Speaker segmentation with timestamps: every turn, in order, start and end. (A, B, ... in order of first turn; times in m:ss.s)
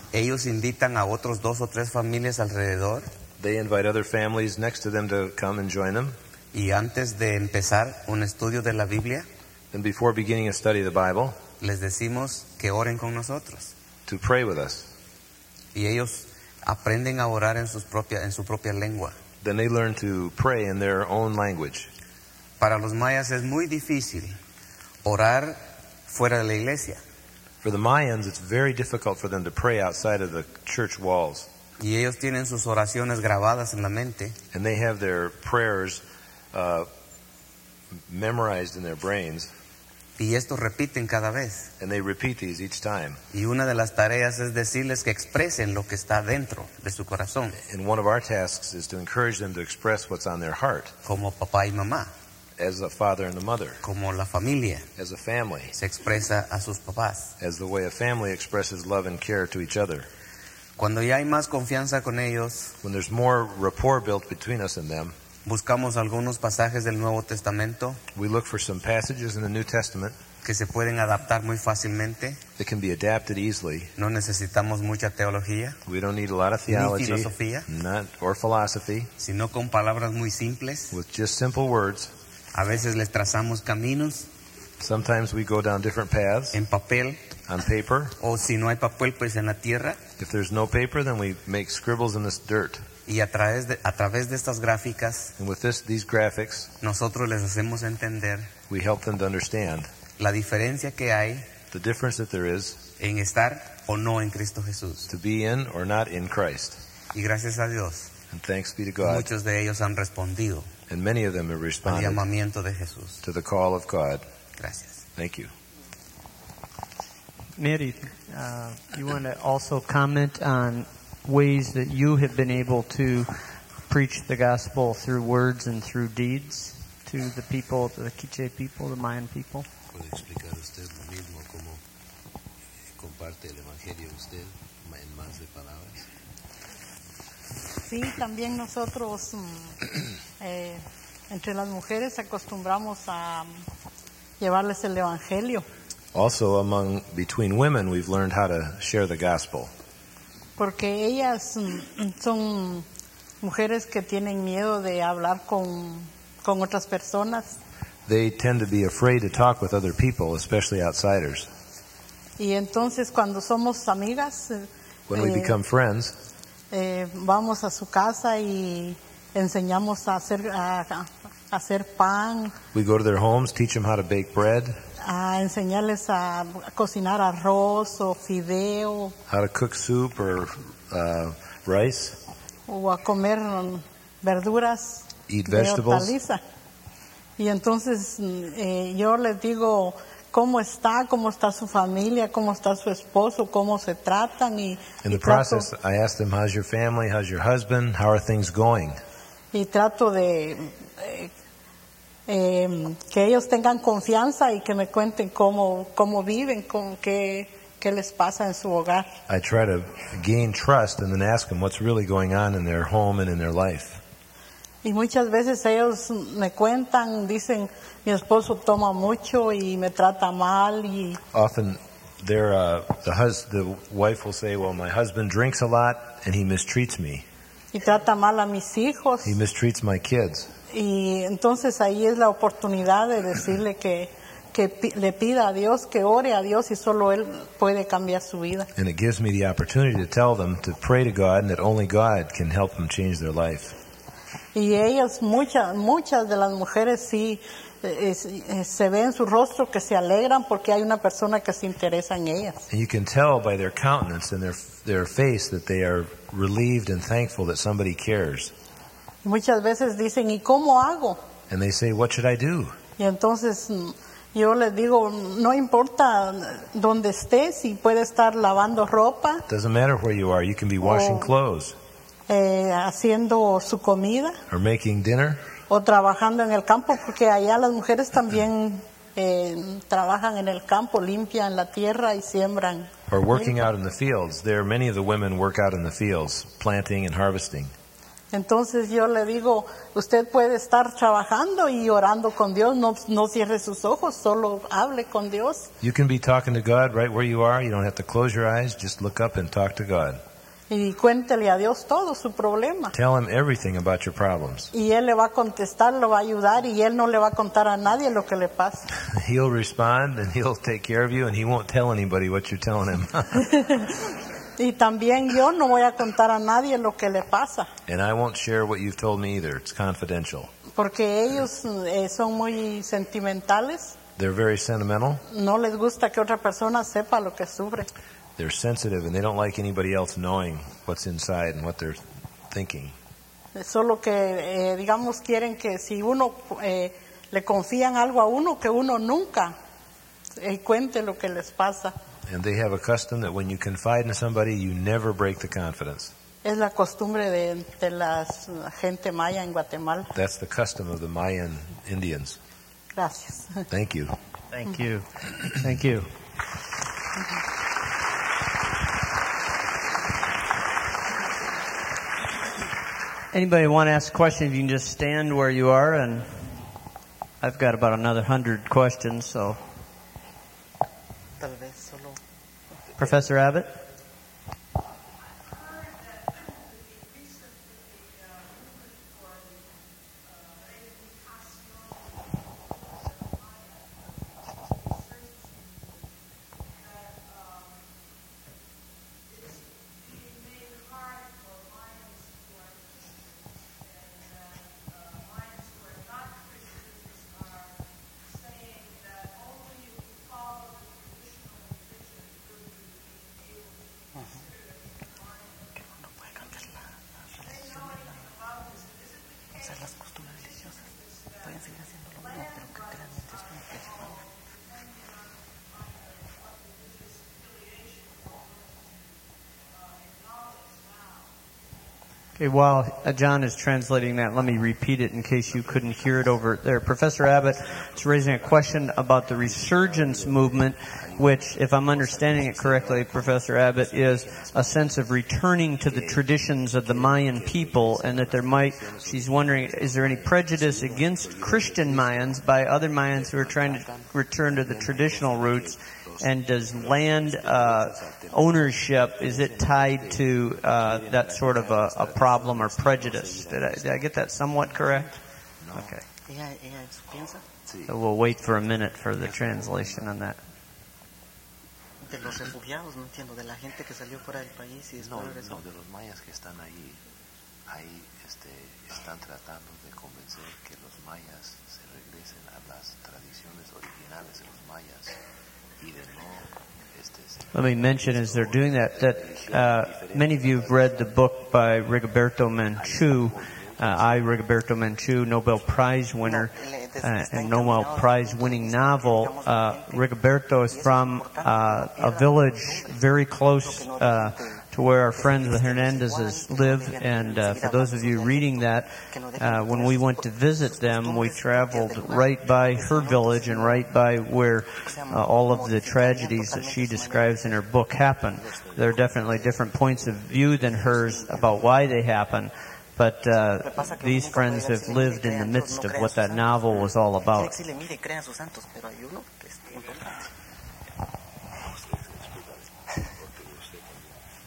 0:00.1-0:03.1 A
0:03.4-0:06.2 B
0:06.5-0:09.3 A
0:09.7-0:11.4 B
0:11.6-0:13.7 A
0:14.1-0:14.9 B
0:15.7-0:19.2 A
0:19.4-0:21.9 B
0:22.6-0:24.4 A
0:25.0-0:27.0 A
0:27.6-0:31.5 B
0:31.8-0:34.4 A
0:34.5-0:36.9 B
0:38.1-0:39.5 B
0:40.2-0:41.7 A
0:41.8-0:43.2 B
0:43.3-0:47.6 A
0:47.6-0:51.0 B
0:51.0-0:52.1 A
0:52.6-0:53.8 B
0:53.8-0:54.9 A
0:55.0-0:55.8 B
0:55.8-0:57.3 A
0:57.4-1:00.1 B
1:00.8-1:02.8 A
1:02.8-1:05.1 B
1:05.5-1:08.0 A
1:08.1-1:10.2 B
1:10.4-1:12.4 A
1:12.6-1:13.9 B
1:14.0-1:15.8 A
1:15.9-1:19.1 B
1:16.7-1:17.7 A
1:19.2-1:21.0 A
1:20.9-1:22.1 B
1:22.5-1:24.3 A
1:24.8-1:26.6 B
1:26.5-1:27.2 A
1:27.5-1:28.2 B
1:28.2-1:30.0 A
1:30.2-1:32.9 B
1:33.1-1:35.3 A
1:35.4-1:36.7 B
1:36.8-1:38.5 A
1:38.7-1:39.9 B
1:40.2-1:41.6 A
1:41.7-1:42.8 B
1:43.0-1:45.1 A
1:45.1-1:46.8 B
1:47.1-1:48.1 A
1:48.3-1:49.3 B
1:49.0-1:50.7 A
1:50.9-1:52.2 B
1:51.8-1:53.2 A
1:53.2-1:54.2 B
1:54.6-1:55.0 A
1:55.2-1:55.5 B
1:57.6-2:03.4 C
2:03.9-2:09.7 C
2:09.9-2:11.8 D
2:13.0-2:16.1 D
2:17.8-2:19.8 E
2:20.4-2:23.5 E
2:24.4-2:25.7 E
2:26.1-2:29.7 B
2:30.6-2:32.9 E
2:33.4-2:37.6 E
2:38.1-2:41.5 B
2:42.4-2:45.6 E
2:45.1-2:46.1 B
2:46.7-2:52.6 E
2:52.7-2:54.8 B
2:55.0-2:59.2 E
2:59.3-3:02.2 B
3:02.7-3:06.4 E
3:05.3-3:06.2 B
3:07.4-3:15.7 E
3:15.0-3:19.0 B
3:19.5-3:21.3 E
3:22.3-3:29.1 E
3:29.3-3:34.0 B
3:34.8-3:41.2 E
3:41.3-3:47.3 B
3:47.7-3:49.4 E
3:49.2-3:50.5 B
3:50.7-3:58.7 E
3:58.8-4:03.8 B
4:04.6-4:12.7 E
4:12.7-4:18.5 B
4:19.2-4:21.2 E
4:21.5-4:22.8 B
4:23.0-4:29.5 E
4:29.5-4:31.8 B
4:30.9-4:31.3 E
4:32.3-4:34.4 E
4:34.5-4:35.5 B
4:35.7-4:43.6 E
4:43.1-4:47.7 B
4:48.3-4:55.7 E
4:55.8-5:00.2 B
5:00.7-5:02.9 E
5:02.9-5:04.7 B
5:04.7-5:08.9 E
5:09.0-5:13.5 B
5:13.5-5:14.0 E
5:14.6-5:17.7 E
5:17.9-5:20.5 B
5:20.8-5:24.0 E
5:24.2-5:25.2 B
5:25.3-5:27.9 E
5:28.4-5:33.0 B
5:33.6-5:39.6 E
5:40.4-5:42.0 E
5:42.3-5:46.1 B
5:46.4-5:50.1 E
5:50.2-5:52.4 B
5:53.0-5:53.6 E
5:53.7-5:54.2 B
5:54.5-5:56.1 C
6:03.3-6:06.5 C
6:07.4-6:09.6 C
6:11.4-6:12.2 F
6:13.0-6:13.8 C
6:46.3-6:46.6 F
6:47.5-6:48.1 F
6:49.6-6:50.7 F
6:51.4-6:54.1 F
7:02.4-7:35.2 C
7:07.6-7:08.6 D
7:09.4-7:22.4 D
7:23.0-7:35.0 D
7:35.6-7:36.0 D
7:35.8-7:36.0 C
7:36.3-7:37.4 F
7:37.7-7:38.0 D
7:37.9-7:40.4 C
7:39.2-7:40.1 D
7:42.1-7:45.6 F
7:45.0-7:47.0 D
7:47.7-7:55.2 D
7:55.8-8:01.1 D
7:57.5-8:37.6 C
8:02.8-8:04.4 D
8:06.2-8:10.0 F
8:10.7-8:12.9 F
8:13.6-8:14.6 F
8:15.2-8:20.0 F
8:20.8-8:23.8 F
8:24.8-8:27.5 F
8:33.6-8:36.6 F
8:37.3-8:40.1 F
8:41.8-8:42.6 D
8:43.2-8:44.0 D